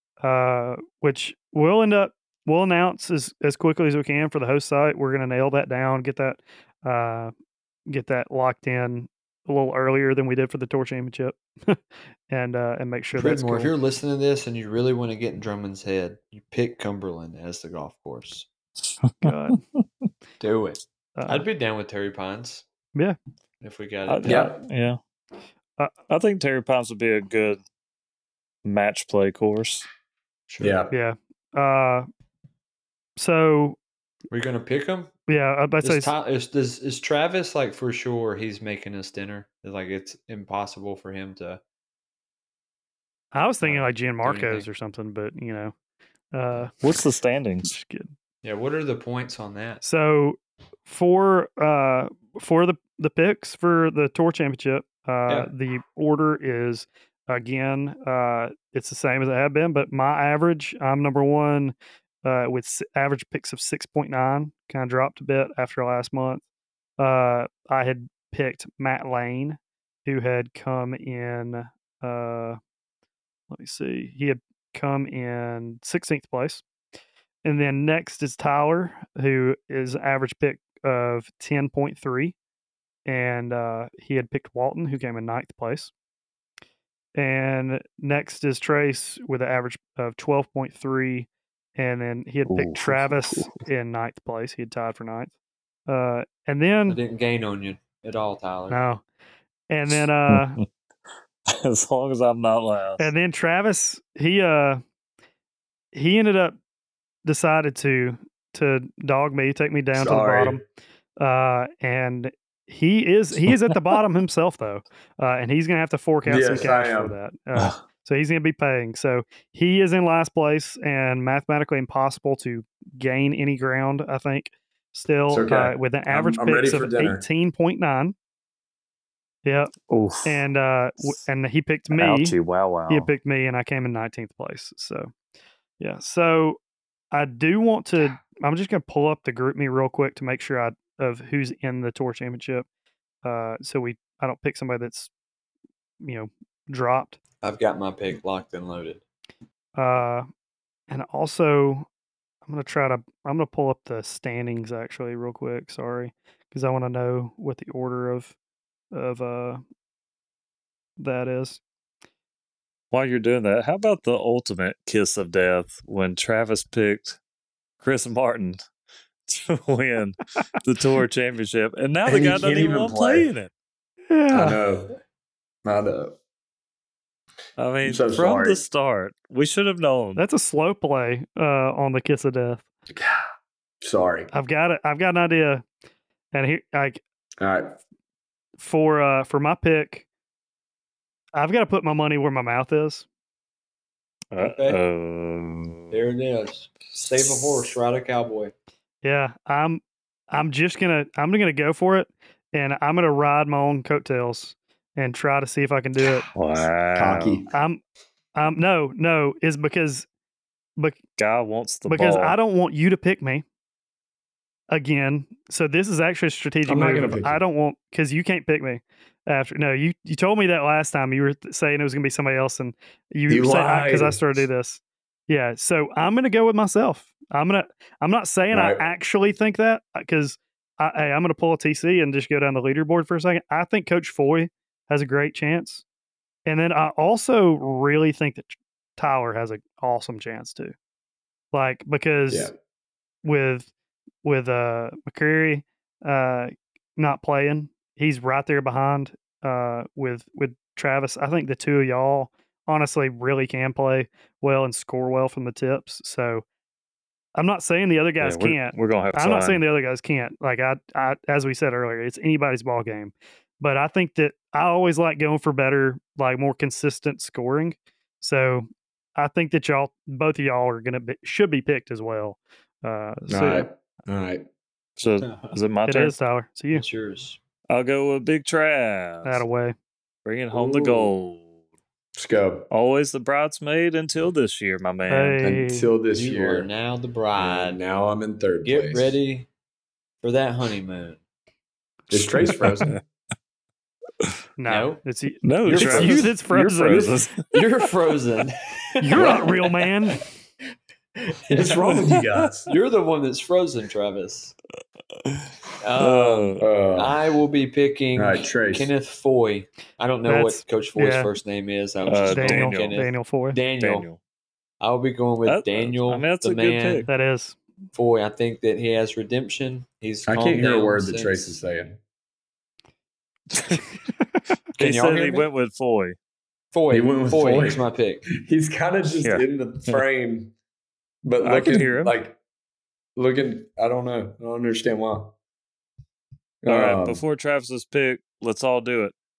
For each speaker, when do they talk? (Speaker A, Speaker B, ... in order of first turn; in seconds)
Speaker A: 0.2-7.3, 7.9-13.7, 19.2-19.6, 21.2-21.4, 30.9-32.1, 33.2-33.8, 35.3-36.1, 43.3-45.7, 46.3-46.8, 47.6-48.1, 49.8-66.4, 67.0-72.6, 73.5-76.6, 77.4-82.4, 83.1-85.9, 87.2-95.3, 95.9-97.0, 98.7-99.0, 99.7-100.6, 103.0-104.8, 105.9-106.6, 107.2-110.6, 111.2-128.2, 129.4-129.7, 130.2-132.3, 132.9-135.1, 135.8-136.6, 137.1-142.7, 143.2-145.1, 146.0-147.2, 149.8-150.3, 150.9-151.9, 152.5-158.3, 158.9-159.6, 161.0-161.6, 174.1-174.6, 180.2-182.6, 184.3-185.7, 186.3-187.0, 188.6-190.1, 191.4-193.1, 199.0-206.3, 207.5-207.8, 208.3-210.1, 211.9-213.4, 214.7-235.8, 236.5-240.7, 241.5-242.5, 243.2-243.7, 244.2-256.4, 257.4-273.7, 275.9-276.8, 279.2-279.8, 285.1-285.9, 294.6-297.2, 299.0-300.2, 310.3-311.3, 312.3-313.6, 317.1-317.6
Speaker B: 13.2-18.5, 20.4-22.6, 23.6-24.5, 30.5-30.8, 34.3-35.1, 35.8-41.6, 43.6-44.7, 48.4-49.8, 96.9-98.8, 147.4-149.0, 194.4-194.8, 195.9-198.5, 275.2-275.6, 276.7-277.4, 280.5-281.1, 286.1-287.8, 288.6-289.5, 290.2-291.2, 294.7-295.0, 295.7-296.3, 296.9-300.0, 301.3-304.6, 305.8-314.1, 314.8-317.1, 317.9-321.6, 324.8-325.5, 326.7-328.3
Speaker C: 19.0-19.8, 24.1-25.0, 26.1-27.6, 28.6-29.9, 46.8-47.7, 92.5-93.6, 100.3-100.7, 101.5-103.1, 117.5-117.8, 129.9-130.4, 131.9-133.1, 162.9-167.2, 167.8-168.6, 169.3-173.5, 177.6-180.2, 194.3-196.0, 206.3-207.4, 211.2-212.4, 258.2-259.6, 275.0-276.1, 277.7-279.4, 280.2-281.5, 282.7-285.4, 295.4-297.4, 305.2-306.7, 312.0-313.0, 313.8-314.2, 315.5-317.1, 324.8-326.2, 329.2-330.0, 331.4-332.1, 336.7-339.1
Speaker D: 24.2-24.6, 30.6-30.9, 109.9-110.6, 116.3-117.2, 125.3-127.2, 172.1-173.3, 174.3-174.9, 175.7-176.2, 177.8-178.6, 182.9-183.2, 183.8-184.3, 187.4-187.8, 206.9-207.5, 216.7-217.4, 223.3-224.2, 228.5-228.9, 273.3-274.5, 282.2-282.7, 285.4-286.7, 287.4-289.2, 292.1-292.9, 301.5-302.7, 306.6-307.2, 308.1-308.9, 320.3-322.0, 326.9-330.5, 331.2-332.4, 333.2-335.4, 336.6-337.2